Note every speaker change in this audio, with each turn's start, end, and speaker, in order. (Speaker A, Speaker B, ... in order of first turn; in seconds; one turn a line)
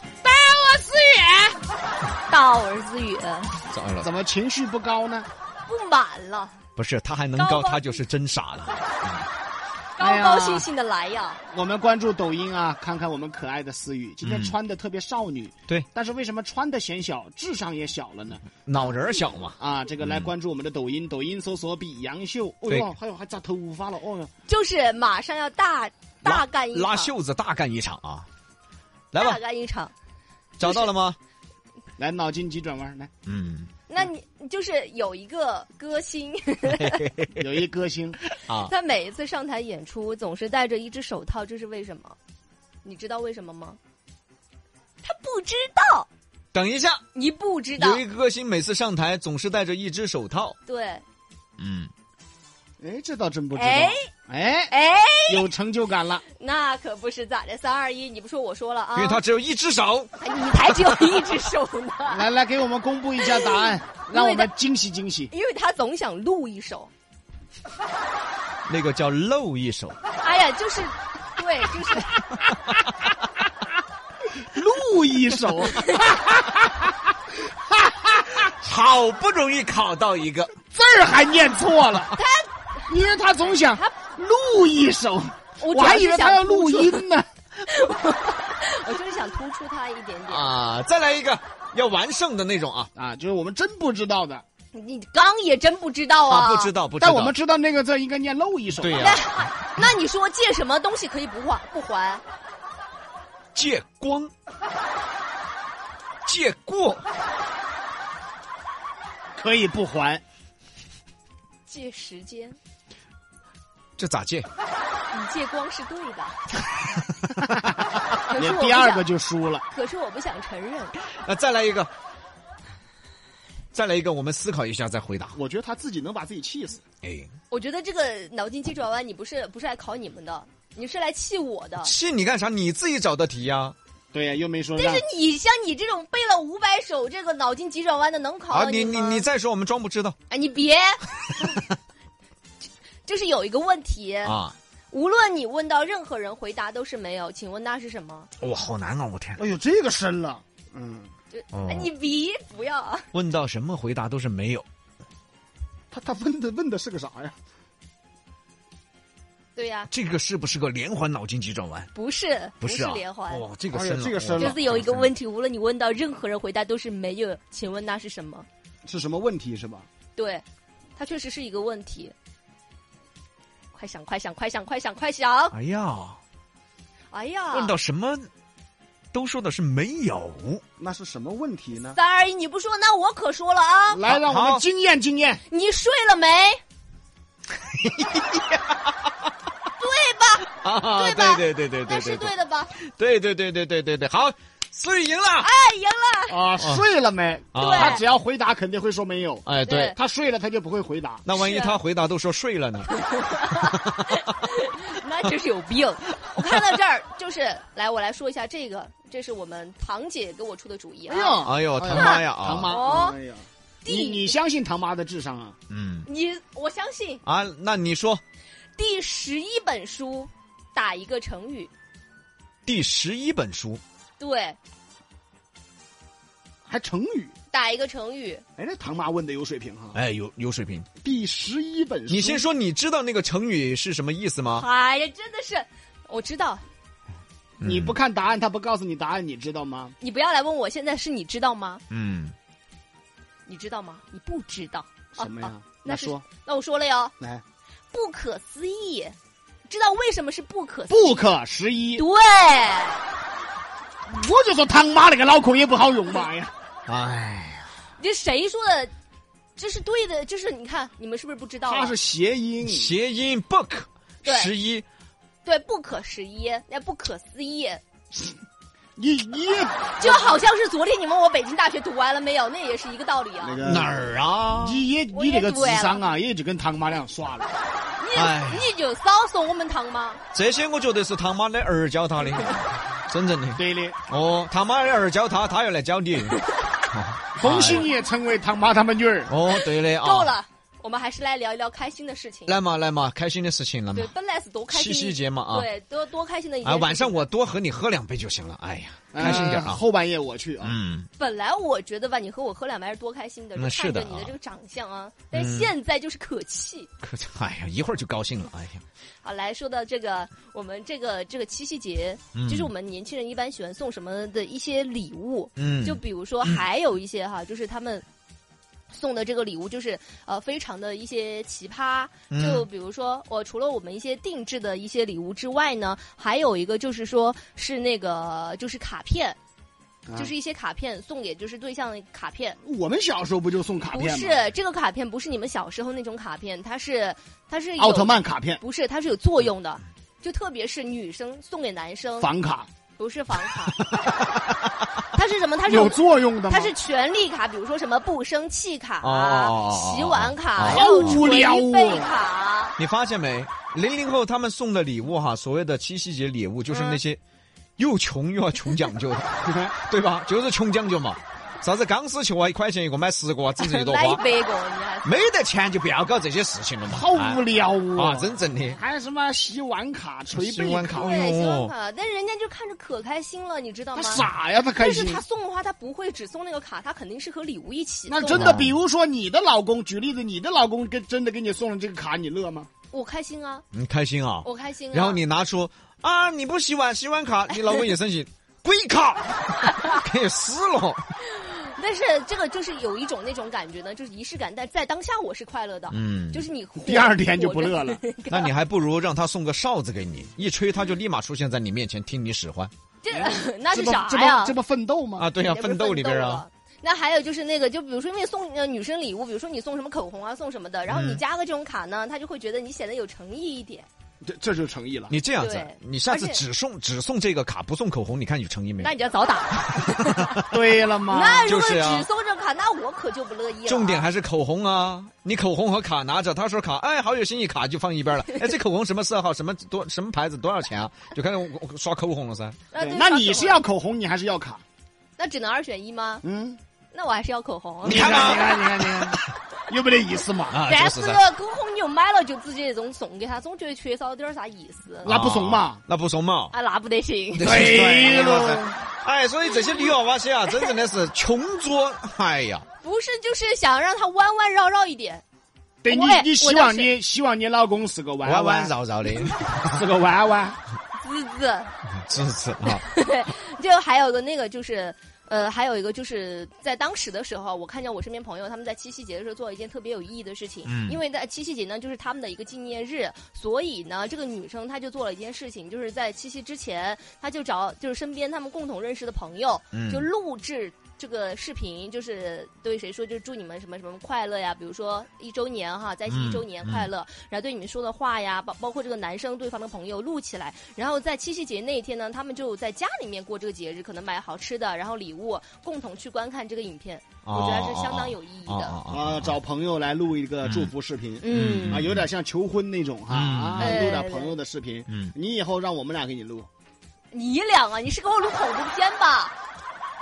Speaker A: 0.2-1.6
Speaker B: 2.3-3.6
Speaker C: 3.7-4.1
Speaker A: 4.0-5.3
Speaker B: 5.7-6.6
Speaker C: 6.8-9.2
Speaker B: 7.3-8.0
Speaker B: 9.9-11.4
Speaker A: 10.0-10.7
Speaker A: 11.5-18.5
Speaker C: 14.2-14.5
Speaker C: 18.6-20.3
Speaker A: 19.6-24.3
Speaker B: 24.5-27.1
Speaker C: 26.2-28.3
Speaker C: 29.1-29.4
Speaker B: 29.1-29.9
Speaker C: 30.6-31.2
Speaker B: 30.6-30.9
Speaker A: 32.0-33.1
Speaker C: 33.2-33.7
Speaker B: 33.9-37.1
Speaker C: 36.7-37.4
Speaker A: 37.4-38.2
Speaker C: 38.5-38.7
Speaker B: 38.6-42.2
Speaker B: 42.8-43.8
Speaker B: 45.0-46.1
Speaker C: 46.5-47.0
Speaker B: 47.1-48.0
Speaker C: 47.8-50.5
Speaker B: 50.6-51.0
Speaker C: 51.6-51.9
Speaker A: 52.8-54.7
Speaker B: 53.5-54.1
Speaker B: 54.7-55.5
Speaker A: 55.3-56.2
Speaker B: 56.3-59.2
Speaker C: 58.9-60.1
Speaker B: 60.2-62.3
Speaker A: 62.0-65.3
Speaker B: 63.2-64.5
Speaker B: 65.3-66.9
Speaker C: 68.7-70.0
Speaker B: 70.2-72.4
Speaker A: 74.3-77.0
Speaker B: 75.8-76.1
Speaker A: 77.5-78.5
Speaker C: 78.6-80.5
Speaker A: 80.7-82.2
Speaker B: 82.1-83.9
Speaker A: 82.9-87.3
Speaker B: 85.6-87.0
Speaker B: 87.6-90.5
Speaker C: 90.3-92.9
Speaker A: 93.0-94.4
Speaker B: 94.7-96.7
Speaker C: 96.3-97.3
Speaker A: 97.0-99.1
Speaker C: 98.8-99.2
Speaker B: 99.0-102.2
Speaker C: 103.5-104.3
Speaker C: 106.2-107.0
Speaker A: 109.4-110.2
Speaker B: 111.7-112.5
Speaker C: 114.0-114.5
Speaker B: 115.1-116.5
Speaker A: 117.4-117.8
Speaker B: 118.3-119.1
Speaker A: 118.3-119.6
Speaker B: 119.7-120.9
Speaker C: 121.1-121.9
Speaker C: 123.7-125.4
Speaker A: 125.3-126.8
Speaker C: 127.0-127.3
Speaker B: 127.5-131.9
Speaker C: 131.8-133.7
Speaker A: 134.1-135.0
Speaker B: 134.8-139.2
Speaker C: 138.5-140.2
Speaker B: 140.3-141.6
Speaker B: 143.0-144.3
Speaker C: 144.2-144.5
Speaker B: 144.9-148.3
Speaker C: 148.4-149.4
Speaker A: 149.4-151.1
Speaker B: 151.3-153.1
Speaker C: 151.5-151.9
Speaker C: 153.1-154.6
Speaker A: 155.9-157.3
Speaker B: 159.5-159.9
Speaker C: 159.9-161.9
Speaker B: 161.9-163.4
Speaker C: 162.6-165.1
Speaker A: 163.7-164.6
Speaker B: 164.4-168.5
Speaker A: 168.8-169.9
Speaker B: 170.2-170.4
Speaker B: 171.0-172.1
Speaker B: 173.7-175.5
Speaker C: 175.5-176.2
Speaker B: 177.1-177.7
Speaker C: 177.5-178.3
Speaker C: 179.1-180.6
Speaker A: 180.8-182.0
Speaker B: 181.8-184.0
Speaker A: 183.9-185.4
Speaker C: 184.1-184.6
Speaker B: 185.5-186.6
Speaker C: 187.7-188.9
Speaker B: 189.8-192.7
Speaker C: 190.6-195.5
Speaker B: 195.4-196.4
Speaker A: 196.3-201.2
Speaker C: 196.6-196.8
Speaker C: 197.5-198.0
Speaker B: 197.6-198.0
Speaker C: 199.4-200.0
Speaker B: 199.6-200.0
Speaker C: 201.2-202.9
Speaker B: 201.3-201.8
Speaker B: 202.9-213.2
Speaker C: 203.5-204.2
Speaker A: 211.1-215.6
Speaker C: 211.4-212.8
Speaker B: 213.8-214.3
Speaker C: 215.7-216.1
Speaker B: 216.1-217.2
Speaker C: 217.2-218.2
Speaker B: 218.8-221.7
Speaker C: 222.7-223.8
Speaker B: 224.2-224.6
Speaker A: 226.7-227.3
Speaker B: 227.5-228.4
Speaker A: 228.6-230.0
Speaker C: 229.9-230.9
Speaker A: 231.0-232.4
Speaker C: 232.1-234.7
Speaker B: 234.5-236.6
Speaker C: 237.6-237.9
Speaker A: 237.6-239.9
Speaker B: 240.0-241.8
Speaker C: 241.9-242.3
Speaker B: 243.5-247.1
Speaker A: 245.2-246.2
Speaker B: 247.9-249.2
Speaker B: 249.7-251.2
Speaker A: 250.9-252.0
Speaker B: 251.9-253.0
Speaker A: 254.1-256.5
Speaker C: 256.9-257.7
Speaker B: 258.0-258.9
Speaker B: 259.6-261.9
Speaker A: 261.7-262.9
Speaker C: 262.6-264.8
Speaker B: 264.2-264.5
Speaker B: 265.4-267.8
Speaker A: 268.9-270.4
Speaker B: 270.0-273.6
Speaker A: 273.4-274.0
Speaker C: 273.6-274.8
Speaker A: 274.6-277.5
Speaker B: 275.1-276.1
Speaker B: 278.0-280.2
Speaker C: 278.1-278.7
Speaker C: 280.3-286.4
Speaker B: 282.3-282.6
Speaker A: 283.6-284.0
Speaker C: 286.9-287.9
Speaker A: 287.4-289.3
Speaker C: 289.3-290.3
Speaker B: 289.5-292.6
Speaker C: 292.5-294.1
Speaker B: 293.9-297.2
Speaker C: 294.7-295.7
Speaker C: 296.6-299.8
Speaker A: 299.1-300.8
Speaker C: 300.6-301.1
Speaker B: 301.2-306.9
Speaker C: 303.6-304.3
Speaker C: 305.3-305.7
Speaker C: 307.0-308.8
Speaker B: 309.2-318.0
Speaker C: 312.3-312.7
Speaker C: 315.6-316.6
Speaker B: 318.9-329.4
Speaker C: 322.3-322.6
Speaker A: 330.1-330.3
Speaker B: 330.1-332.6
Speaker A: 332.6-334.4
Speaker B: 333.9-342.3
Speaker A: 337.8-338.6
Speaker A: 342.2-342.7
Speaker B: 343.0-343.9
Speaker B: 345.1-352.7
Speaker A: 345.6-346.7
Speaker C: 349.0-351.2
Speaker A: 350.6-352.1
Speaker C: 352.8-357.2
Speaker B: 356.7-357.0
Speaker C: 357.8-364.2
Speaker A: 359.4-359.7
Speaker B: 363.6-365.2
Speaker C: 365.0-367.4
Speaker A: 366.9-371.1
Speaker C: 367.9-368.8
Speaker C: 370.3-371.7
Speaker B: 370.9-378.6
Speaker A: 373.9-375.2
Speaker A: 378.1-382.7
Speaker C: 378.3-378.7
Speaker B: 382.9-383.6
Speaker C: 383.7-391.0
Speaker B: 384.4-385.2
Speaker B: 389.6-389.9
Speaker B: 391.2-398.5
Speaker C: 395.9-396.4
Speaker A: 396.8-398.0
Speaker C: 398.3-402.7
Speaker B: 403.0-404.6
Speaker A: 403.1-405.3
Speaker C: 405.2-406.4
Speaker B: 405.4-413.9
Speaker C: 410.9-411.2
Speaker A: 414.2-415.1
Speaker C: 415.1-418.9
Speaker B: 415.4-416.4
Speaker B: 418.8-420.5
Speaker A: 420.4-421.5
Speaker B: 421.1-424.1
Speaker C: 421.4-422.1
Speaker C: 423.6-432.6
Speaker B: 432.7-433.6
Speaker A: 432.8-434.6
Speaker B: 435.2-436.2
Speaker A: 436.2-436.6
Speaker B: 436.9-438.6
Speaker C: 437.8-439.1
Speaker A: 437.8-440.6
Speaker C: 440.5-441.2
Speaker B: 440.6-445.1
Speaker A: 445.0-445.8
Speaker C: 445.0-446.5
Speaker B: 446.5-447.6
Speaker A: 447.4-448.8
Speaker C: 447.4-452.6
Speaker B: 449.6-449.9
Speaker B: 452.8-455.2
Speaker A: 455.8-458.8
Speaker B: 455.9-456.9
Speaker C: 458.2-459.8
Speaker A: 459.6-460.6
Speaker B: 461.0-461.7
Speaker C: 462.0-462.8
Speaker B: 462.7-498.8
Speaker C: 470.6-471.0
Speaker C: 479.7-480.1
Speaker C: 486.1-486.9
Speaker C: 497.2-499.3
Speaker A: 498.9-506.5
Speaker C: 500.4-500.7
Speaker B: 501.2-501.8
Speaker C: 501.3-502.1
Speaker C: 503.1-504.0
Speaker B: 503.6-504.4
Speaker C: 504.9-505.1
Speaker B: 507.1-509.3